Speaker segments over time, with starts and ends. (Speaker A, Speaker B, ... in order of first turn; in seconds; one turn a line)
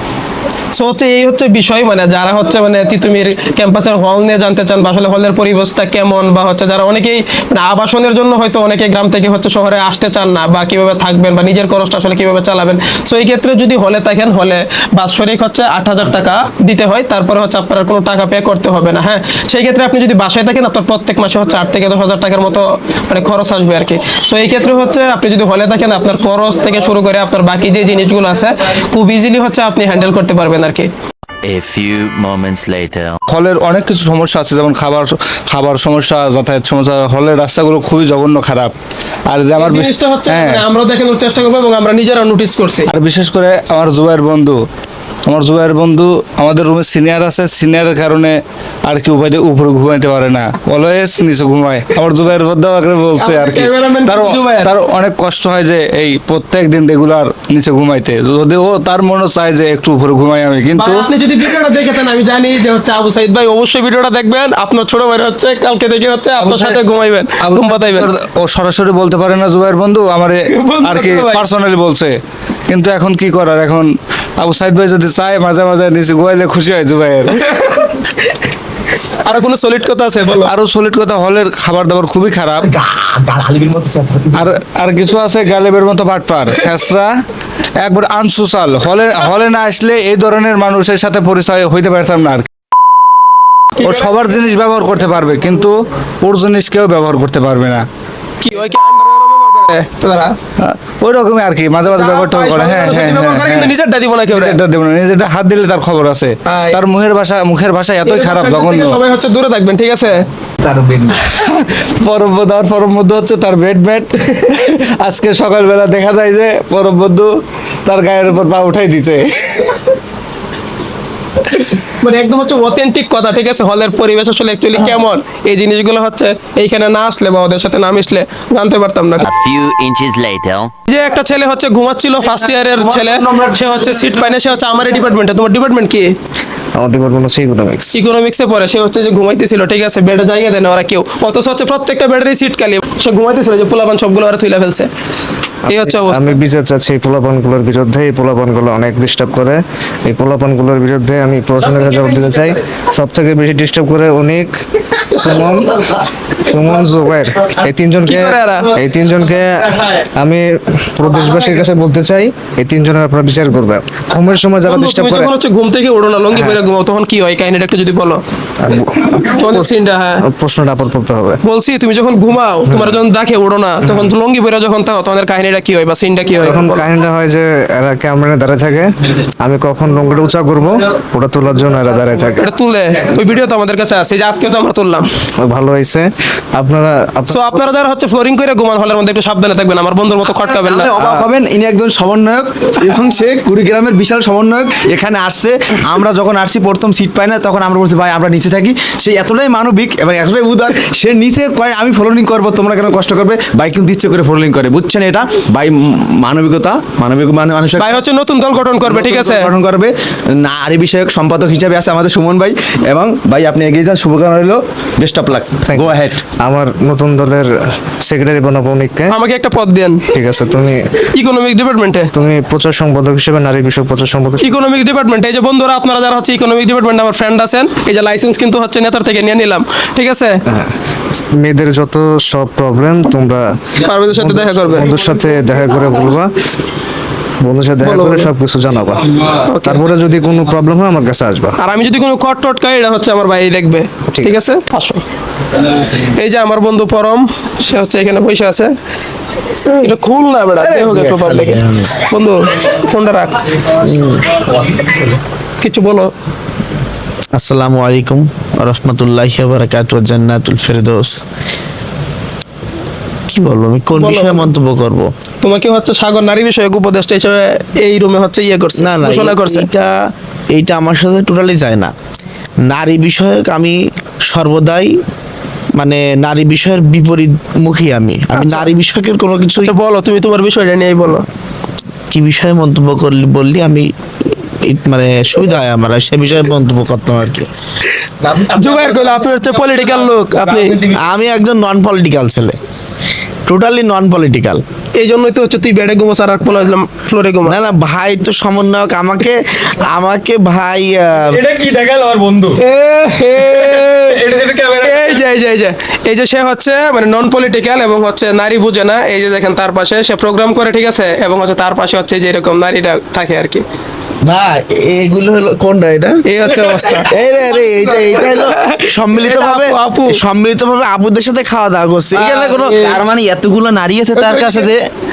Speaker A: 0.7-30.9
Speaker B: 31.4-33.2
Speaker C: 33.3-38.7
Speaker C: 39.3-40.6
Speaker A: 39.6-42.9
Speaker C: 42.9-44.6
Speaker C: 45.3-48.4
Speaker C: 48.9-61.0
Speaker A: 53.2-54.7
Speaker A: 60.8-68.1
Speaker C: 66.4-66.8
Speaker C: 67.5-72.1
Speaker A: 70.5-71.5
Speaker C: 72.7-77.6
Speaker A: 79.2-80.5
Speaker C: 80.5-82.7
Speaker D: 82.6-84.4
Speaker C: 84.4-87.1
Speaker C: 87.8-92.5
Speaker A: 93.8-94.1
Speaker C: 93.8-97.8
Speaker A: 98.4-100.3
Speaker C: 100.6-103.7
Speaker A: 101.9-104.6
Speaker C: 104.3-109.0
Speaker A: 106.5-106.8
Speaker A: 108.0-110.2
Speaker E: 110.7-111.0
Speaker C: 111.3-117.3
Speaker C: 117.9-119.7
Speaker A: 121.5-129.3
Speaker B: 129.2-130.7
Speaker A: 130.9-136.1
Speaker F: 136.8-138.0
Speaker A: 137.9-144.9
Speaker A: 145.7-146.3
Speaker F: 145.7-154.6
Speaker F: 155.2-155.9
Speaker F: 156.5-165.3
Speaker A: 158.1-158.7
Speaker A: 164.7-168.2
Speaker F: 168.6-169.6
Speaker A: 169.2-170.2
Speaker F: 170.3-171.4
Speaker A: 171.4-176.9
Speaker F: 176.4-182.4
Speaker A: 182.4-185.1
Speaker F: 185.4-187.6
Speaker A: 187.3-190.9
Speaker E: 190.4-207.9
Speaker A: 207.8-209.5
Speaker E: 208.8-216.2
Speaker F: 215.7-219.2
Speaker A: 219.1-220.0
Speaker F: 220.1-220.9
Speaker A: 221.2-222.1
Speaker F: 222.1-224.6
Speaker A: 224.4-230.3
Speaker F: 231.4-233.5
Speaker A: 233.8-234.9
Speaker F: 234.2-236.3
Speaker F: 237.4-239.1
Speaker A: 237.8-238.3
Speaker A: 239.4-239.8
Speaker F: 239.7-241.6
Speaker A: 241.6-245.0
Speaker A: 245.6-248.7
Speaker A: 249.7-253.4
Speaker D: 250.6-252.1
Speaker D: 253.8-255.0
Speaker A: 255.6-256.1
Speaker D: 257.4-261.1
Speaker D: 263.3-265.1
Speaker A: 263.9-264.5
Speaker A: 265.4-269.7
Speaker D: 268.8-269.9
Speaker D: 270.5-271.9
Speaker D: 272.7-273.8
Speaker D: 274.3-274.9
Speaker D: 275.8-279.7
Speaker A: 278.4-278.7
Speaker A: 279.6-281.2
Speaker D: 282.1-283.9
Speaker D: 284.5-287.5
Speaker G: 288.2-291.1
Speaker A: 288.6-290.8
Speaker D: 290.9-292.6
Speaker D: 293.5-294.6
Speaker A: 295.0-297.6
Speaker D: 297.4-301.4
Speaker G: 301.3-302.6
Speaker A: 302.6-304.2
Speaker G: 303.4-305.2
Speaker A: 304.8-313.6
Speaker D: 314.2-316.2
Speaker A: 316.3-317.1
Speaker D: 316.9-322.5
Speaker A: 317.8-320.2
Speaker A: 322.2-322.7
Speaker E: 322.2-324.8
Speaker A: 324.2-324.7